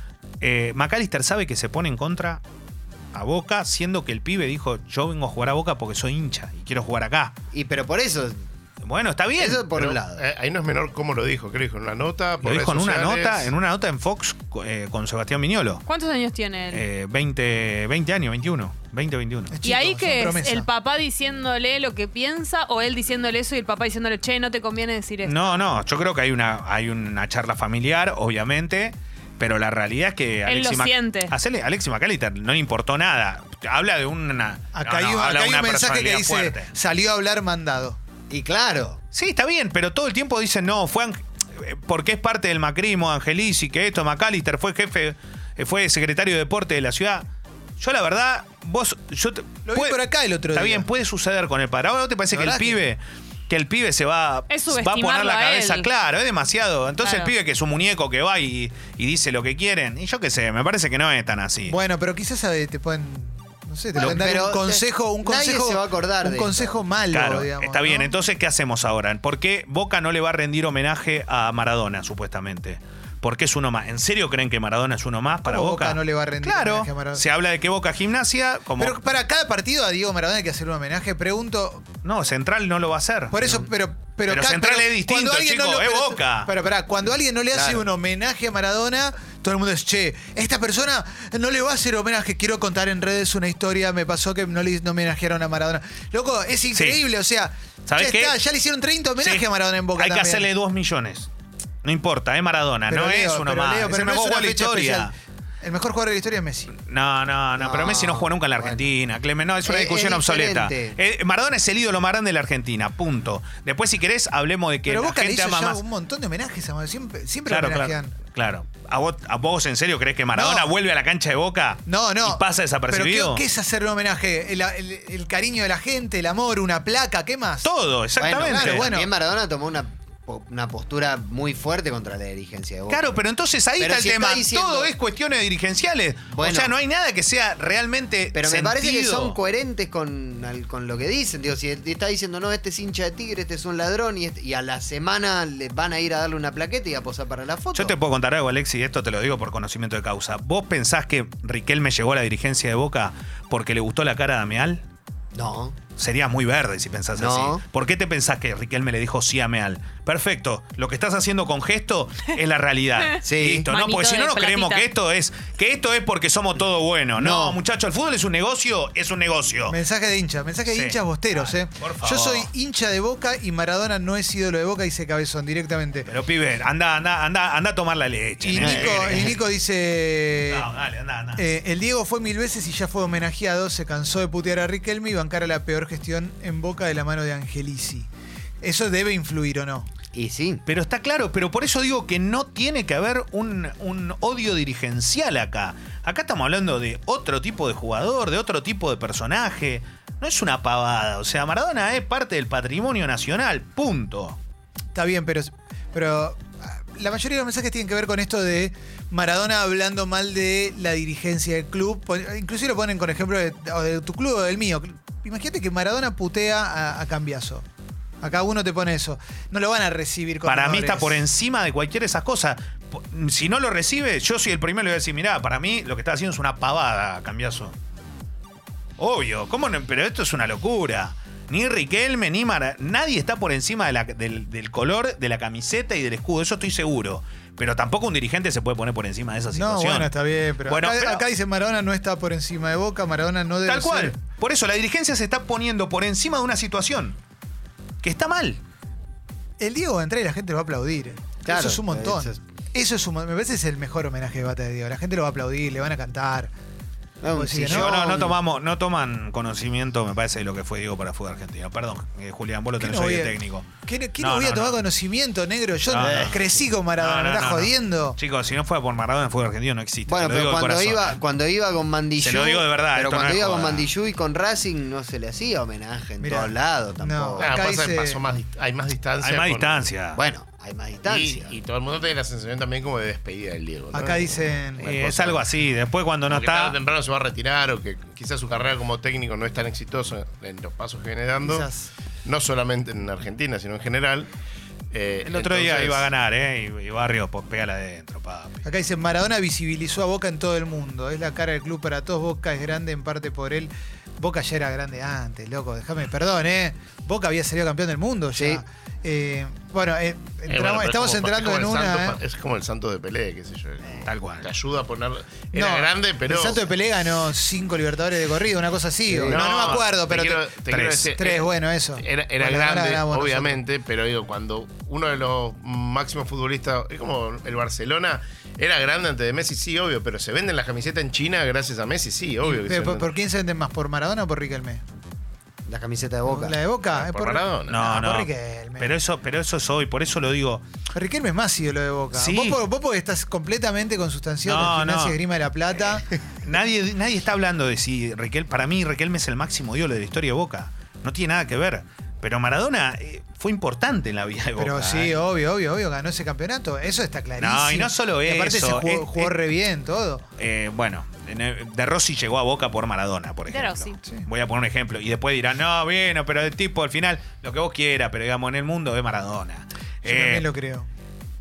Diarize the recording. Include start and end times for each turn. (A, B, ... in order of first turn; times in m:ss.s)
0:00.4-0:02.4 A
0:03.1-0:07.4 A
0:07.5-0:08.4 B
0:08.8-0:09.6 A
0:09.4-0:10.2 B
0:09.7-0:13.5 C
0:12.4-0:15.8 A
0:15.8-0:16.8 D
0:16.7-0:19.6 A
0:19.5-0:20.7 E
0:19.6-0:25.4 D
0:25.2-0:36.7 A
0:30.4-0:31.3 D
0:34.7-0:38.0 E
0:38.3-0:39.0 B
0:39.1-0:47.3 A
0:47.8-1:01.8 A
0:49.7-0:50.8 E
0:52.3-0:52.8 E
0:54.5-0:55.9 D
0:57.0-0:57.3 D
1:01.7-1:08.2 E
1:04.0-1:06.7 B
1:04.0-1:04.2 A
1:07.1-1:19.0 A
1:15.4-1:17.2 E
1:18.8-1:21.8 E
1:22.0-1:23.5 A
1:23.3-1:40.5 E
1:24.2-1:26.5 A
1:27.5-1:27.8 B
1:36.7-1:37.0 A
1:37.8-1:38.4 A
1:39.2-1:39.4 A
1:40.0-1:41.3 A
1:41.8-1:45.1 A
1:42.9-1:46.7 E
1:46.7-1:55.8 A
1:47.6-1:48.8 B
1:49.6-1:51.0 B
1:54.8-1:58.1 E
1:57.4-2:03.4 A
2:00.3-2:00.7 E
2:01.9-2:07.7 E
2:07.6-2:09.0 A
2:08.2-2:13.0 B
2:08.4-2:09.1 E
2:12.9-2:19.4 A
2:13.8-2:14.9 B
2:16.3-2:16.7 B
2:18.3-2:28.0 B
2:27.7-2:34.8 A
2:35.3-2:35.8 B
2:36.0-2:49.8 A
2:37.1-2:37.6 B
2:43.2-2:43.7 B
2:43.6-2:44.9 D
2:47.2-2:47.6 B
2:49.7-2:56.1 E
2:50.6-2:52.5 A
2:56.0-2:59.4 A
2:58.4-3:00.6 E
3:00.5-3:01.4 A
3:01.4-3:08.1 E
3:08.6-3:09.9 E
3:10.1-3:10.6 B
3:10.6-3:24.4 A
3:24.9-3:37.6 E
3:38.2-3:41.2 E
3:40.4-3:47.8 A
3:49.0-4:00.1 A
3:59.5-4:04.2 E
4:00.6-4:01.2 A
4:03.6-4:07.2 A
4:08.0-4:08.6 A
4:09.6-4:16.5 E
4:11.4-4:12.4 B
4:17.2-4:18.4 B
4:17.3-4:17.9 E
4:17.6-4:24.8 A
4:22.8-4:28.2 E
4:25.9-4:26.4 A
4:26.0-4:26.7 B
4:27.0-4:31.2 A
4:30.1-4:37.6 B
4:32.2-4:33.9 A
4:36.2-4:38.2 E
4:37.4-4:39.9 C
4:39.2-4:40.2 A
4:40.1-4:41.5 B
4:41.0-4:45.5 C
4:43.9-4:44.9 E
4:44.8-4:46.8 A
4:46.3-4:51.7 C
4:51.4-4:51.9 E
4:52.2-4:54.3 C
4:54.9-4:56.1 C
4:55.2-4:58.6 A
4:58.6-5:12.2 E
5:08.4-5:08.6 B
5:10.5-5:16.7 C
5:14.0-5:14.5 A
5:15.5-5:20.5 E
5:19.1-5:19.4 B
5:19.2-5:33.1 C
5:19.3-5:19.9 A
5:20.6-5:21.1 A
5:21.1-5:23.6 E
5:32.4-5:34.8 E
5:35.6-5:36.6 B
5:36.2-5:38.9 E
5:36.9-5:38.0 C
5:37.7-5:40.6 A
5:40.9-5:46.0 E
5:42.1-5:42.6 A
5:44.4-5:45.2 A
5:45.9-5:55.2 A
5:54.6-6:00.2 E
5:57.4-5:59.5 A
6:00.4-6:10.5 A
6:03.5-6:04.0 D
6:10.0-6:10.9 E